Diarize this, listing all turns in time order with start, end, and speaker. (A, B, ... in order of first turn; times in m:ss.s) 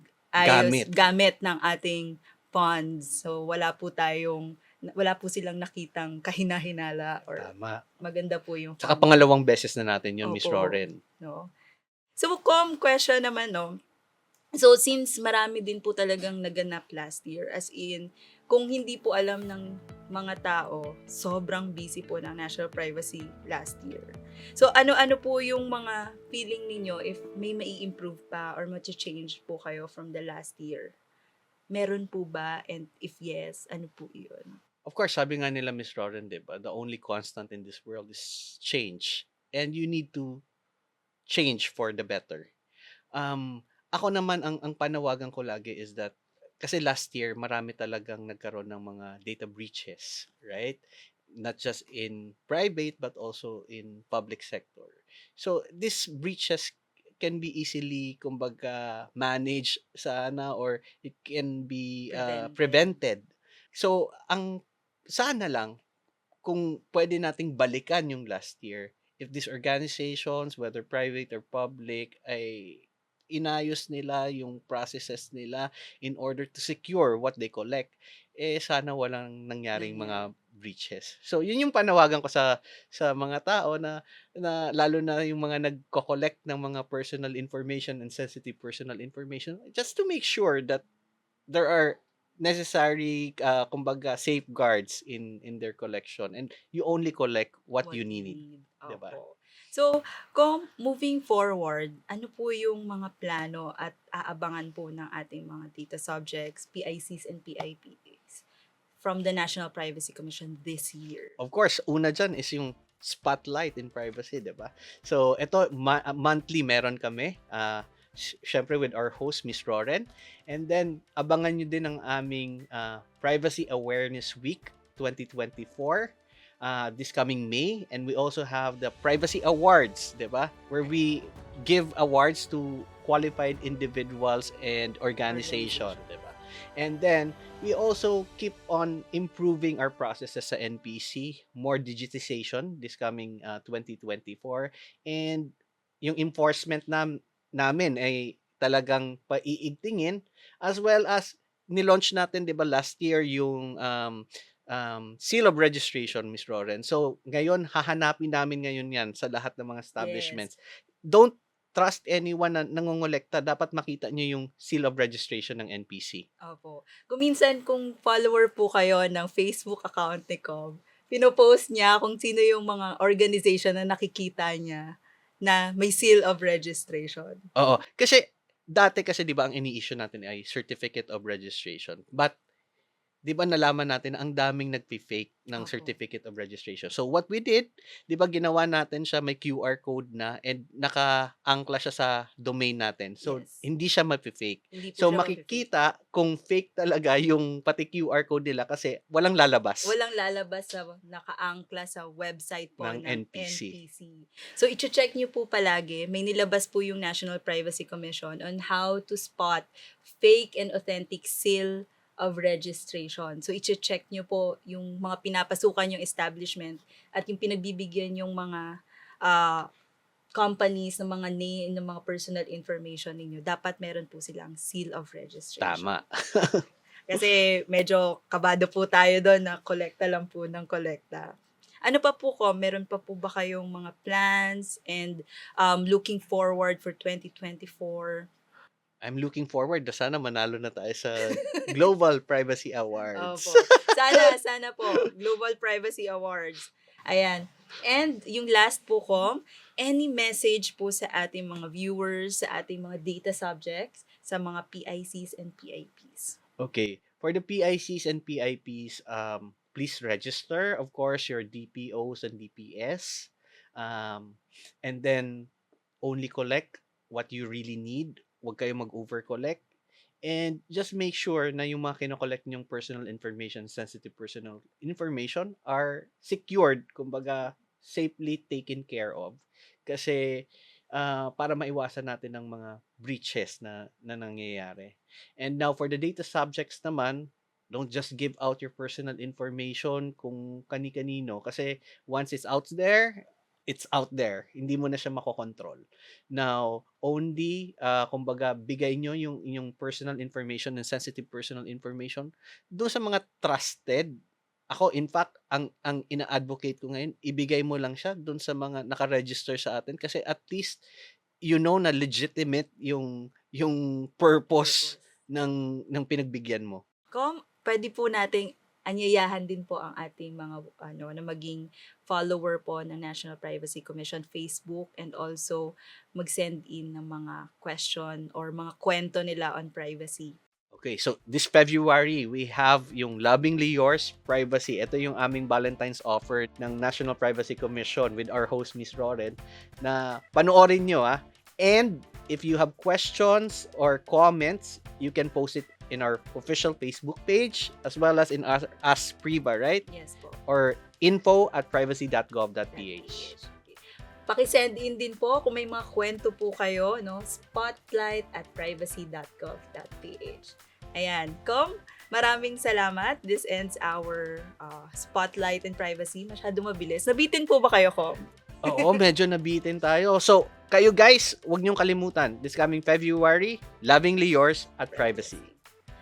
0:00.3-0:07.5 A
0:00.4-0:01.0 B
0:07.4-0:07.8 B
0:08.0-0:09.1 A
0:08.8-0:11.0 B
0:10.2-0:11.5 A
0:12.2-0:13.7 A
0:14.6-0:30.9 A
0:31.7-0:34.6 A
0:34.9-0:40.4 B
0:41.3-0:42.5 B
0:43.2-0:50.8 B
0:51.4-1:04.6 B
1:02.1-1:03.0 A
1:05.1-1:05.8 B
1:06.4-1:30.8 B
1:19.7-1:20.2 A
1:31.5-1:39.1 B
1:37.8-1:48.4 A
1:49.0-1:51.3 A
1:51.4-2:40.5 B
2:15.3-2:16.0 A
2:40.0-2:40.5 A
2:41.1-2:46.2 B
2:46.4-2:54.8 A
2:55.4-2:57.4 A
2:57.6-2:58.2 B
2:58.7-3:02.3 B
3:03.3-3:19.9 B
3:05.6-3:05.9 A
3:13.2-3:13.6 A
3:14.8-3:15.7 A
3:19.8-3:29.7 A
3:22.8-3:23.8 B
3:30.2-3:38.6 A
3:39.2-3:39.6 A
3:40.4-3:45.9 A
3:45.6-3:46.6 B
3:47.1-3:51.3 A
3:51.8-3:58.3 A
3:59.0-4:04.3 B
4:01.4-4:01.6 A
4:03.2-4:16.4 A
4:16.6-4:25.5 B
4:26.0-4:29.6 B
4:30.2-4:40.2 B
4:40.9-5:04.1 B
5:04.7-5:10.8 B
5:11.5-5:16.8 B
5:14.5-5:15.0 A
5:17.1-5:30.3 A
5:30.7-5:49.8 B
5:49.9-5:50.4 A
5:50.5-5:53.3 B
5:52.7-6:08.2 A
6:08.6-6:15.5 B
6:08.7-6:08.9 A
6:14.9-6:15.6 A